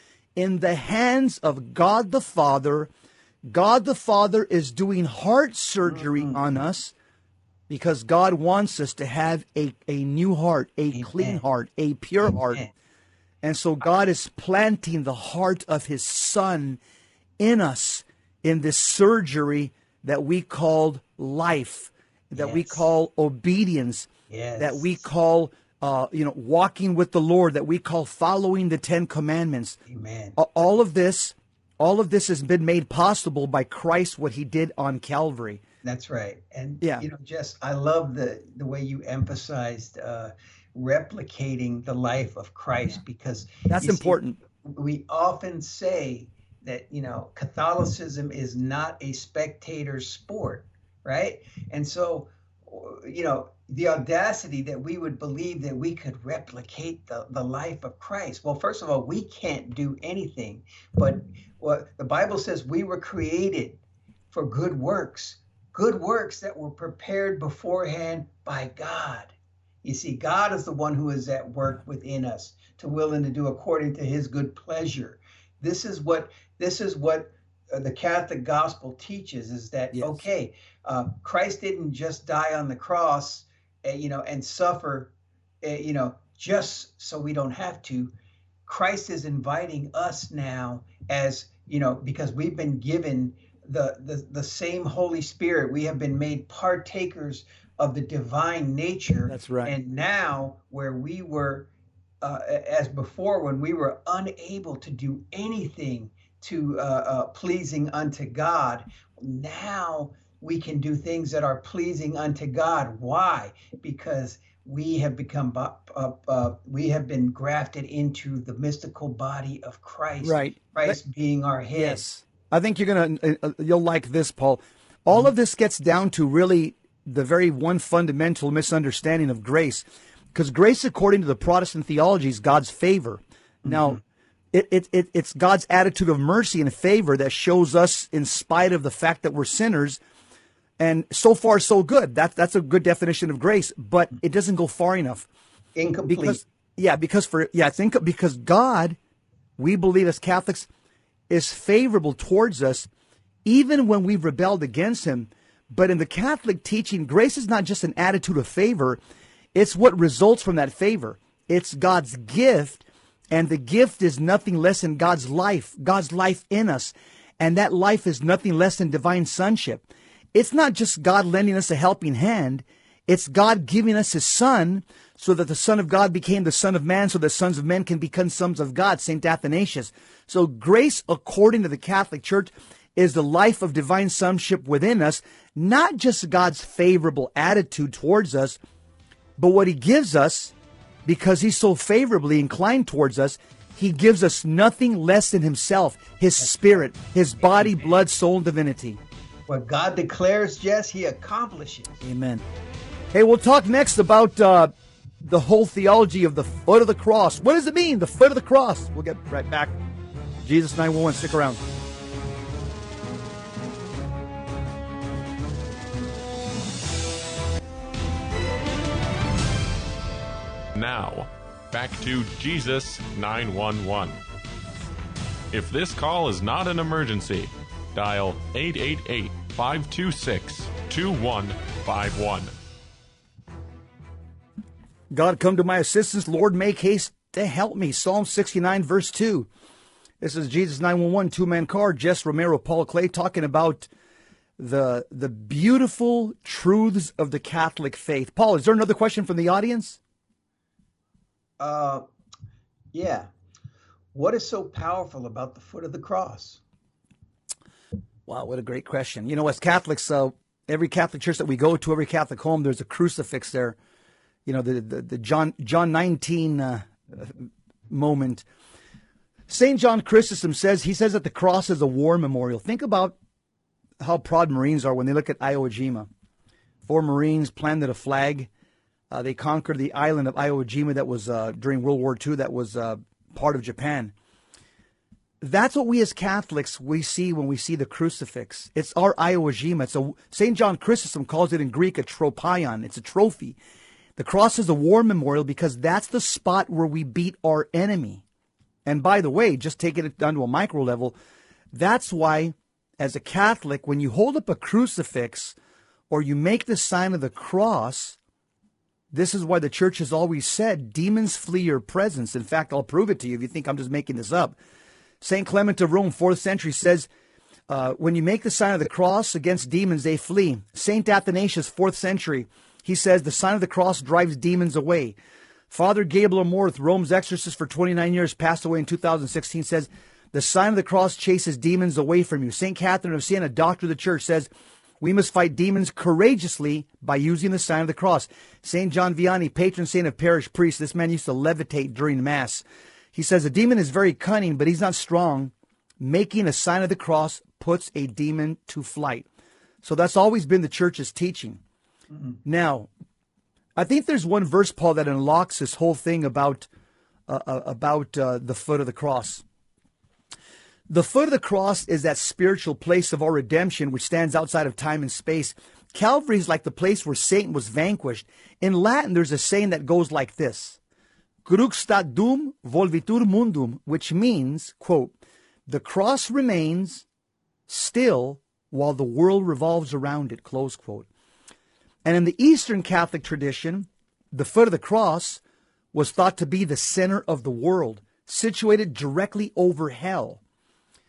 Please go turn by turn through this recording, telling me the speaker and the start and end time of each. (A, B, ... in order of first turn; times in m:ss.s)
0:00.4-0:02.9 A
0:03.5-0:06.9 A
0:05.9-0:06.4 B
0:07.7-0:12.6 A
0:10.9-0:11.4 B
0:12.2-0:12.7 B
0:13.4-0:16.8 A
0:17.4-0:29.8 A
0:22.4-0:22.8 B
0:24.3-0:25.0 B
0:29.9-0:30.4 B
0:30.4-0:35.6 A
0:35.8-1:03.8 B
0:43.7-0:44.4 A
1:04.3-1:25.1 B
1:19.9-1:20.2 A
1:25.6-1:28.1 B
1:28.6-1:41.7 B
1:39.3-1:39.7 A
1:42.2-2:02.0 B
2:00.2-2:01.0 A
2:01.7-2:14.0 A
2:13.7-2:14.0 B
2:14.5-2:20.0 A
2:20.8-2:25.3 A
2:25.8-2:26.4 B
2:26.1-2:29.0 A
2:29.6-2:30.7 A
2:31.3-2:32.9 A
2:33.4-2:39.0 A
2:39.5-3:08.6 A
3:09.4-3:10.5 A
3:11.0-3:19.0 A
3:16.4-3:16.9 B
3:19.5-3:22.0 B
3:22.0-3:22.4 A
3:23.1-3:29.7 A
3:30.4-3:31.6 A
3:40.7-3:44.2 C
3:45.5-3:52.5 C
3:55.1-3:59.5 A
4:00.2-4:03.9 A
4:04.6-4:10.0 A
4:11.6-4:12.0 B
4:12.9-4:13.3 B
4:14.1-4:16.6 B
4:18.3-4:23.8 A
4:24.4-4:28.4 A
4:29.5-4:33.2 A
4:34.0-4:36.1 A
4:36.8-4:38.5 A
4:39.1-4:44.1 A
4:45.4-4:53.6 A
4:54.2-4:58.2 A
4:58.8-5:01.2 A
5:01.7-5:05.5 A
5:06.1-5:08.2 A
5:09.1-5:14.6 A
5:15.2-5:17.1 A
5:17.7-5:25.2 A
5:25.7-5:49.3 A
5:49.8-5:51.6 A
5:52.4-5:52.9 A
5:53.8-5:56.7 A
5:57.3-5:59.4 A
6:00.9-6:10.8 A
6:11.4-6:15.1 A
6:15.7-6:17.0 A
6:17.7-6:21.1 A
6:22.0-6:25.4 A
6:25.9-6:30.4 A